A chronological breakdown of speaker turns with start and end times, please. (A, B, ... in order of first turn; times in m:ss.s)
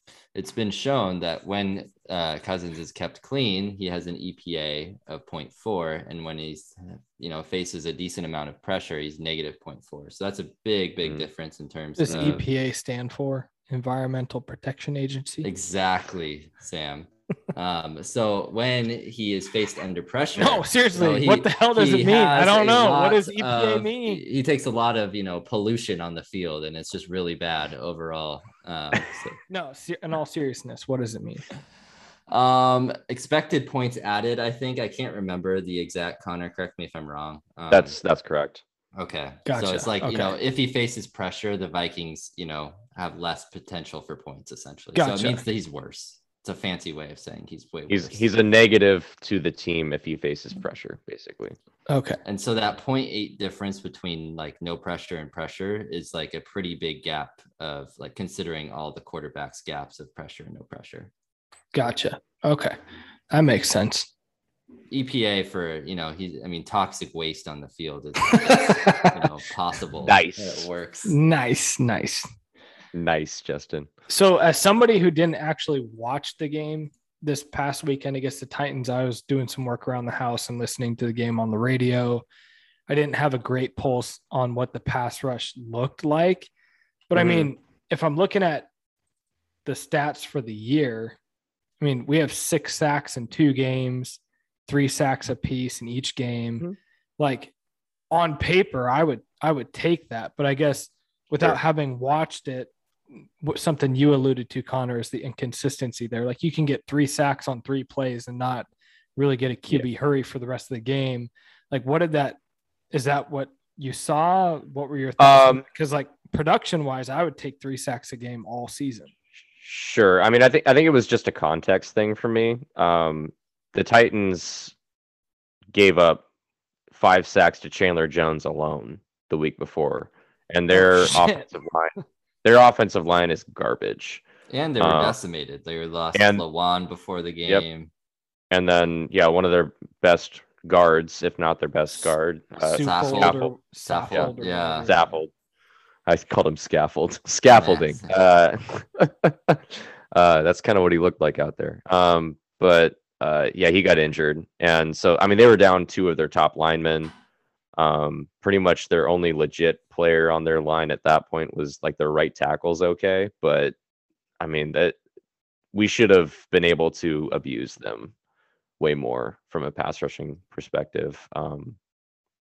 0:00.3-0:12.4 A
0:12.0-0:15.5 B
0:12.1-0:12.4 C
0:15.4-0:29.4 A
0:20.4-0:24.2 B
0:29.5-0:31.5 B
0:32.3-0:38.0 A
0:37.7-0:38.6 C
0:39.0-0:48.3 A
0:39.5-0:40.4 B
0:45.0-0:45.4 B
0:47.9-0:51.6 C
0:51.9-0:52.2 B
0:52.2-1:01.1 A
1:01.7-1:02.8 B
1:03.3-1:04.1 B
1:04.9-1:11.2 A
1:08.4-1:09.2 B
1:10.0-1:10.7 C
1:11.0-1:12.3 B
1:12.9-1:13.9 C
1:14.1-1:22.2 B
1:22.9-1:26.5 B
1:27.1-1:28.7 B
1:27.2-1:27.5 C
1:29.7-1:31.2 B
1:31.8-1:36.6 B
1:37.2-1:37.5 B
1:38.1-1:52.4 B
1:52.9-1:59.1 B
1:55.2-1:55.6 C
1:59.6-2:04.7 C
2:05.7-2:06.2 C
2:06.9-2:14.2 C
2:10.7-2:11.4 B
2:14.5-2:17.9 A
2:14.8-2:15.2 C
2:16.1-2:16.4 C
2:18.5-2:23.6 C
2:22.6-2:25.0 A
2:22.6-2:25.2 B
2:24.8-2:25.3 C
2:26.1-2:37.1 C
2:27.5-2:28.1 A
2:37.8-2:43.7 C
2:44.4-2:45.0 C
2:45.7-2:48.1 C
2:48.8-2:51.8 C